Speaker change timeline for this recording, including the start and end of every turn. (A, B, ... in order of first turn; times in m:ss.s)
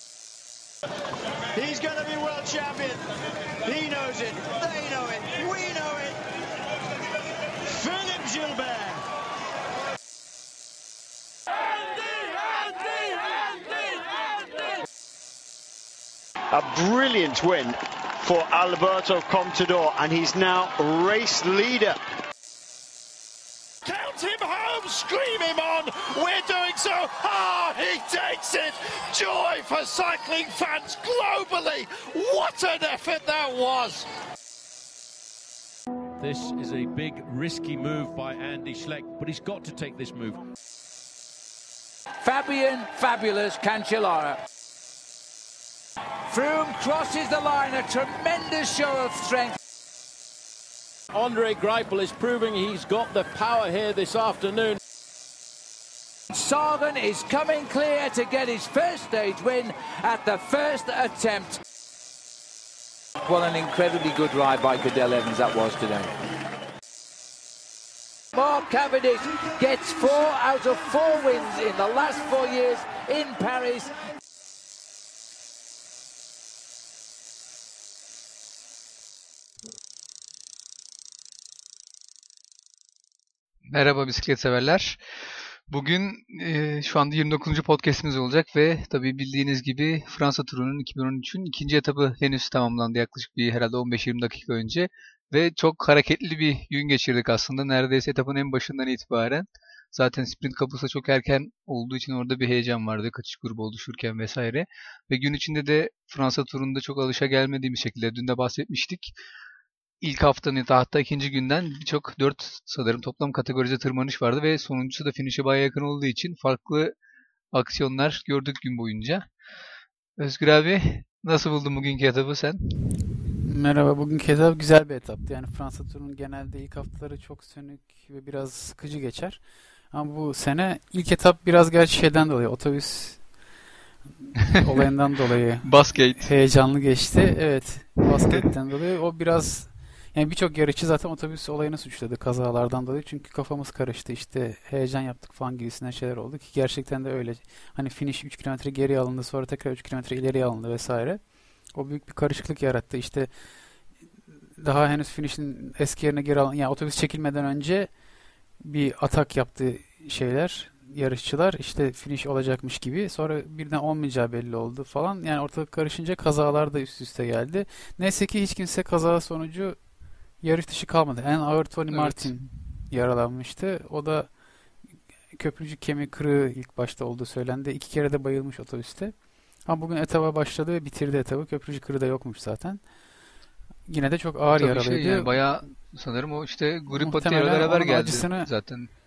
0:01.5-0:03.0 A
0:03.6-0:06.2 A
0:07.6-0:09.0 A
0:16.5-0:22.0 A
0:23.8-0:34.1 B
0:36.2-0:40.4 C
0:42.2-0:44.4 D
0:46.3-0:49.6 D
0:51.1-0:54.8 C
0:56.3-1:01.6 D
1:03.2-1:06.1 D
1:08.3-1:14.0 D
1:23.7-1:49.1 E
1:50.0-1:56.9 E
1:57.5-1:59.3 E
2:00.2-2:02.7 E
2:03.4-2:13.3 F
2:14.3-2:33.3 F
2:15.6-2:16.3 E
2:34.6-2:37.9 F
2:38.6-2:49.8 F
2:50.4-2:54.4 F
2:51.9-2:52.4 E
2:55.3-3:02.9 F
3:03.9-3:05.4 F
3:04.5-3:08.9 E
3:06.9-3:08.5 F